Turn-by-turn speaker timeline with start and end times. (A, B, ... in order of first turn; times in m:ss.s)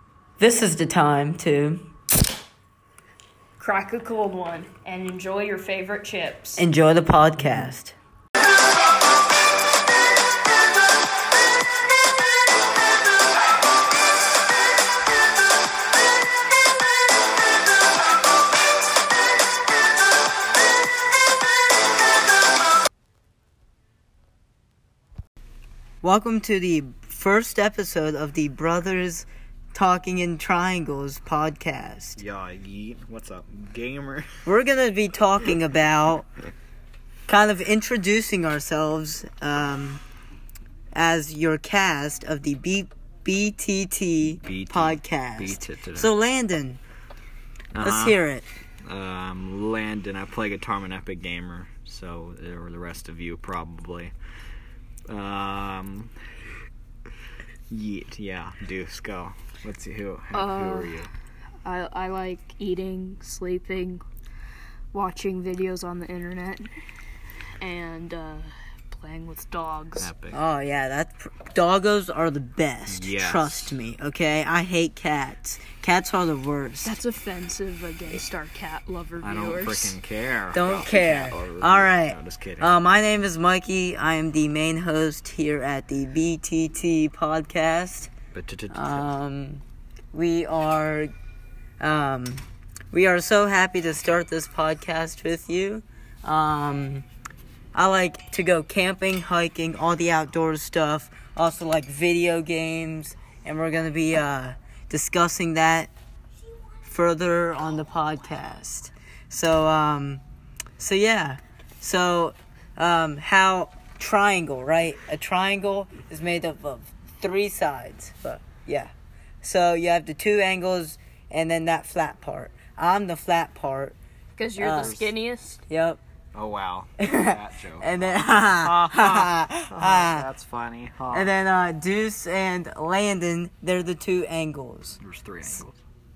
0:00.4-0:01.9 A
0:03.6-0:06.6 B
0:06.6-0:08.0 A
0:26.0-0:32.2 A
0:32.2-0:34.3 C
0:34.5-0:36.3 A
0:37.3-0:40.0 A
0:40.9-0:46.8 A
0:44.3-0:46.1 C
0:47.7-0:48.2 C
0:47.8-0:48.5 A
0:48.9-0:54.1 C
0:55.1-0:56.2 C
0:57.7-1:01.1 C
1:00.3-1:01.0 B
1:01.6-1:04.0 B
1:04.9-1:06.7 B
1:07.6-1:10.1 B
1:10.0-1:10.4 C
1:10.3-1:17.0 A
1:12.9-1:13.8 C
1:16.8-1:20.0 B
1:19.2-1:22.8 C
1:20.5-1:28.1 A
1:28.3-1:29.1 C
1:28.7-1:31.1 A
1:31.8-1:37.0 A
1:37.7-1:45.9 A
1:46.8-1:50.2 A
1:50.8-2:04.0 A
2:04.4-2:05.6 B
2:04.6-2:04.9 A
2:04.7-2:05.2 C
2:05.7-2:06.0 A
2:06.3-2:11.3 C
2:07.0-2:10.3 A
2:11.1-2:15.0 A
2:15.0-2:15.8 C